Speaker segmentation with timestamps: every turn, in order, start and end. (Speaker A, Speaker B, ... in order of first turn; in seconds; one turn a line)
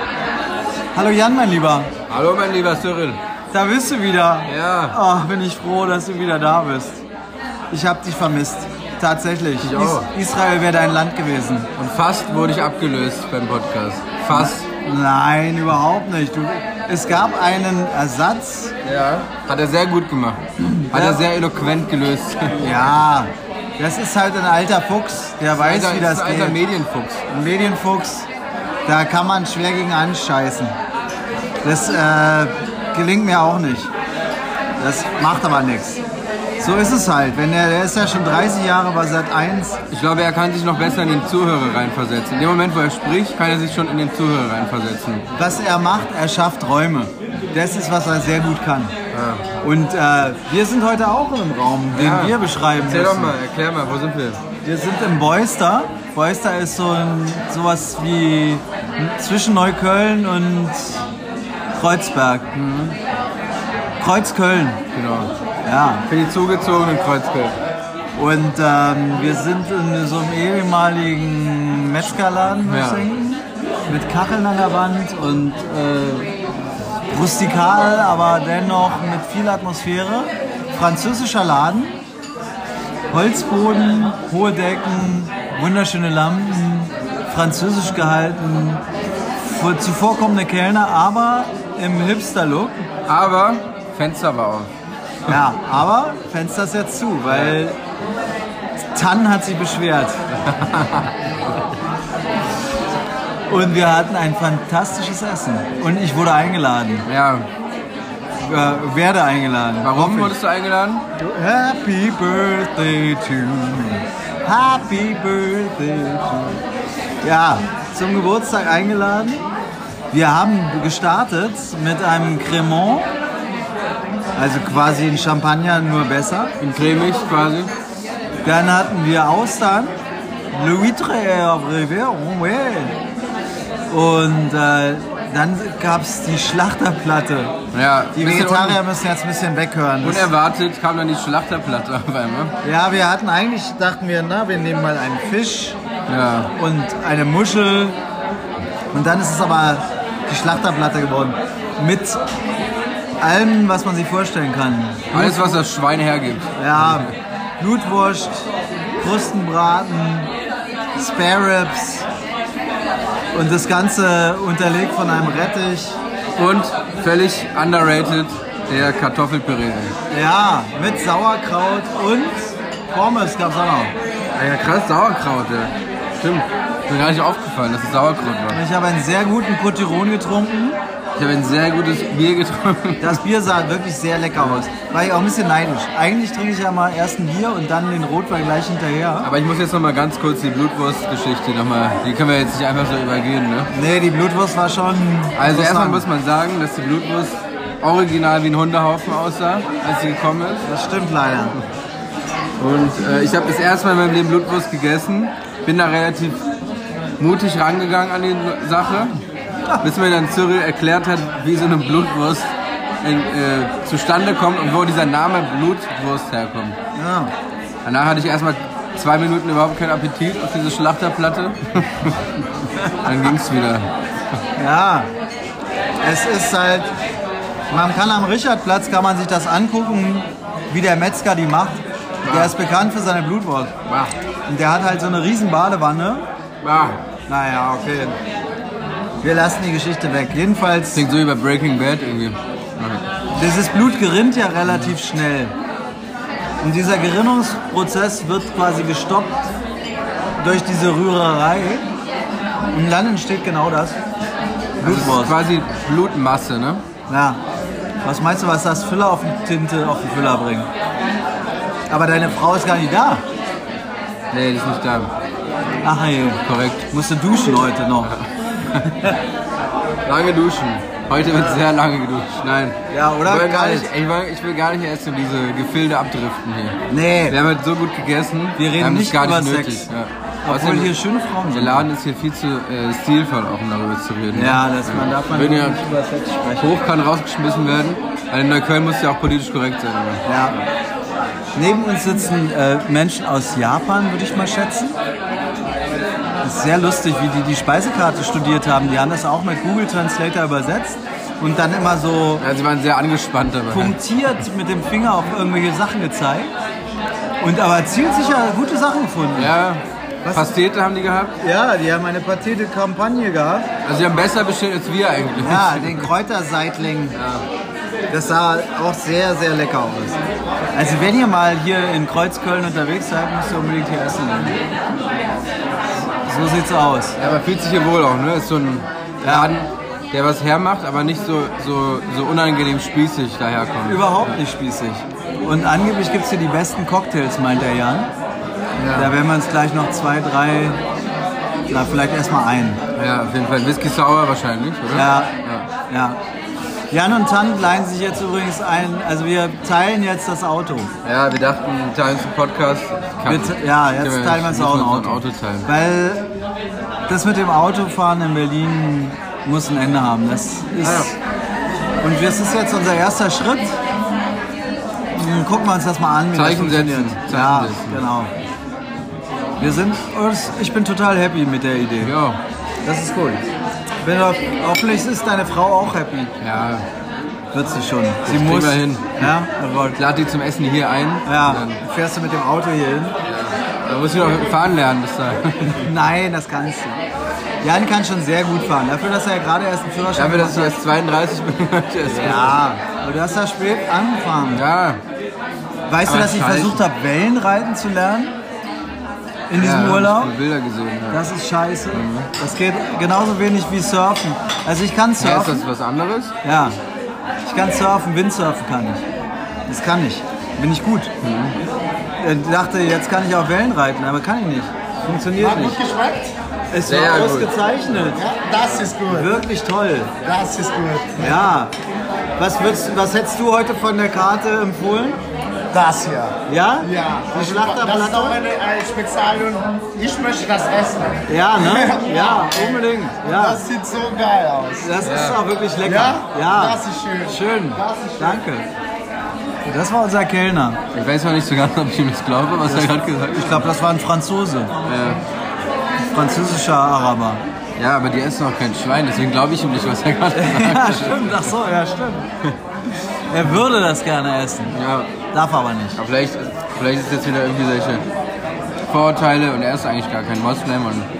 Speaker A: 0.9-1.9
Speaker B: 2.1-3.2
Speaker A: 3.5-7.0
Speaker B: 4.5-5.0
Speaker A: 7.7-11.7
Speaker B: 9.6-10.1
Speaker B: 11.8-14.7
Speaker A: 14.3-18.7
Speaker B: 18.8-20.4
Speaker A: 20.6-21.3
Speaker B: 20.9-22.7
Speaker A: 22.6-26.6
Speaker B: 25.5-27.2
Speaker A: 27.3-28.3
Speaker A: 28.9-30.7
Speaker A: 31.6-33.9
Speaker A: 34.8-36.0
Speaker A: 36.6-39.8
Speaker B: 39.9-45.3
Speaker A: 45.4-48.9
Speaker B: 49.1-49.5
Speaker A: 49.6-53.4
Speaker B: 51.9-54.4
Speaker A: 54.6-61.0
Speaker A: 61.7-62.5
Speaker B: 62.5-63.0
Speaker A: 64.0-64.8
Speaker B: 64.9-65.3
Speaker A: 65.7-66.0
Speaker B: 66.0-67.6
Speaker A: 68.2-76.3
Speaker B: 72.7-73.1
Speaker A: 77.1-82.0
Speaker A: 83.1-88.8
Speaker A: 89.5-92.8
Speaker B: 93.0-94.7
Speaker A: 95.3-97.8
Speaker B: 97.3-97.6
Speaker A: 99.0-100.2
Speaker B: 100.4-101.1
Speaker A: 103.5-107.0
Speaker B: 107.1-107.5
Speaker A: 108.4-110.4
Speaker B: 109.8-111.1
Speaker A: 111.2-116.6
Speaker A: 117.2-119.5
Speaker A: 120.1-123.1
Speaker A: 124.4-126.5
Speaker B: 126.6-127.7
Speaker A: 128.4-129.9
Speaker A: 130.5-132.9
Speaker A: 133.9-137.6
Speaker B: 137.7-138.8
Speaker A: 138.2-140.3
Speaker B: 140.0-142.5
Speaker A: 142.6-145.8
Speaker B: 146.1-146.5
Speaker A: 146.6-148.0
Speaker A: 148.9-152.2
Speaker A: 153.2-155.7
Speaker B: 155.1-157.2
Speaker A: 156.6-160.3
Speaker A: 160.9-162.1
Speaker A: 163.3-166.0
Speaker B: 166.4-170.0
Speaker A: 170.1-173.9
Speaker B: 174.3-178.6
Speaker A: 178.5-180.8
Speaker B: 181.2-183.2
Speaker A: 183.0-189.3
Speaker B: 184.4-184.7
Speaker B: 189.2-193.7
Speaker A: 193.7-196.1
Speaker B: 195.4-200.7
Speaker A: 200.7-201.6
Speaker B: 202.6-206.4
Speaker B: 207.2-209.2
Speaker B: 209.8-212.5
Speaker B: 213.0-216.8
Speaker A: 216.9-217.3
Speaker B: 217.8-223.9
Speaker A: 224.6-225.1
Speaker A: 226.0-226.9
Speaker A: 227.7-233.7
Speaker B: 232.2-232.5
Speaker B: 233.9-234.1
Speaker A: 234.5-236.3
Speaker B: 236.6-237.0
Speaker A: 237.3-238.2
Speaker A: 239.2-241.1
Speaker B: 240.9-243.0
Speaker A: 243.3-245.5
Speaker A: 246.6-249.5
Speaker A: 250.4-251.9
Speaker A: 252.7-254.0
Speaker B: 254.8-256.8
Speaker A: 254.8-255.4
Speaker A: 257.1-257.4
Speaker A: 258.0-260.7
Speaker A: 261.9-263.2
Speaker B: 264.3-265.1
Speaker A: 265.8-266.4
Speaker B: 266.4-266.9
Speaker A: 266.9-268.1
Speaker B: 268.1-269.1
Speaker B: 270.1-280.9
Speaker A: 272.9-273.9
Speaker A: 276.9-277.4
Speaker A: 278.6-279.9
Speaker A: 280.4-281.9
Speaker B: 281.5-285.8
Speaker A: 284.3-286.8
Speaker B: 286.6-290.3
Speaker A: 290.3-290.6
Speaker A: 291.6-295.0
Speaker A: 296.4-302.5
Speaker B: 302.4-304.0
Speaker A: 303.7-306.5
Speaker A: 307.4-309.5
Speaker B: 309.4-311.4
Speaker A: 310.2-310.5
Speaker A: 311.4-313.7
Speaker B: 313.8-316.1
Speaker A: 315.4-317.2
Speaker B: 317.1-317.4
Speaker A: 318.1-320.2
Speaker A: 320.7-324.6
Speaker A: 326.2-327.2
Speaker B: 327.2-334.4
Speaker A: 329.2-329.6
Speaker A: 333.9-338.1
Speaker B: 338.8-339.1
Speaker A: 338.9-340.8
Speaker A: 341.7-342.8
Speaker B: 342.9-345.7
Speaker A: 344.9-345.4
Speaker A: 345.9-346.2
Speaker A: 346.9-350.9
Speaker B: 351.0-355.7
Speaker A: 353.2-356.3
Speaker A: 357.1-361.1
Speaker B: 360.8-361.1
Speaker A: 362.0-363.8
Speaker A: 365.1-368.3
Speaker B: 366.3-368.0
Speaker A: 369.6-372.2
Speaker B: 372.0-372.4
Speaker A: 372.8-373.4
Speaker A: 374.0-376.3
Speaker B: 376.4-376.9
Speaker A: 377.5-380.0
Speaker B: 378.2-379.3
Speaker B: 379.9-381.8
Speaker A: 381.2-383.2
Speaker B: 383.3-385.9
Speaker A: 385.7-387.0
Speaker A: 387.6-390.8
Speaker B: 390.1-392.6
Speaker A: 392.1-394.6
Speaker B: 394.5-395.0
Speaker A: 395.9-398.4
Speaker B: 396.1-396.8
Speaker A: 399.5-400.4
Speaker B: 399.6-401.2
Speaker A: 401.1-405.7
Speaker B: 401.9-402.3
Speaker B: 405.2-406.3
Speaker A: 406.4-406.8
Speaker A: 407.5-409.0
Speaker A: 409.7-411.1
Speaker B: 411.2-411.6
Speaker A: 412.2-415.8
Speaker C: 415.4-416.4
Speaker A: 416.7-418.3
Speaker B: 416.9-417.5
Speaker C: 418.2-419.3
Speaker A: 419.1-420.1
Speaker C: 420.2-421.3
Speaker A: 421.1-421.7
Speaker A: 422.4-425.2
Speaker C: 425.7-432.6
Speaker A: 426.4-428.5
Speaker A: 431.3-433.6
Speaker C: 433.3-434.9
Speaker A: 434.8-438.7
Speaker B: 435.0-435.5
Speaker C: 435.8-438.3
Speaker A: 439.7-440.8
Speaker B: 440.9-443.7
Speaker A: 442.6-444.7
Speaker B: 444.9-445.2
Speaker A: 446.1-447.4
Speaker B: 447.8-451.6
Speaker A: 450.3-452.3
Speaker A: 453.3-454.8
Speaker B: 454.7-455.2
Speaker A: 455.3-456.0
Speaker B: 456.0-458.1
Speaker B: 458.9-461.1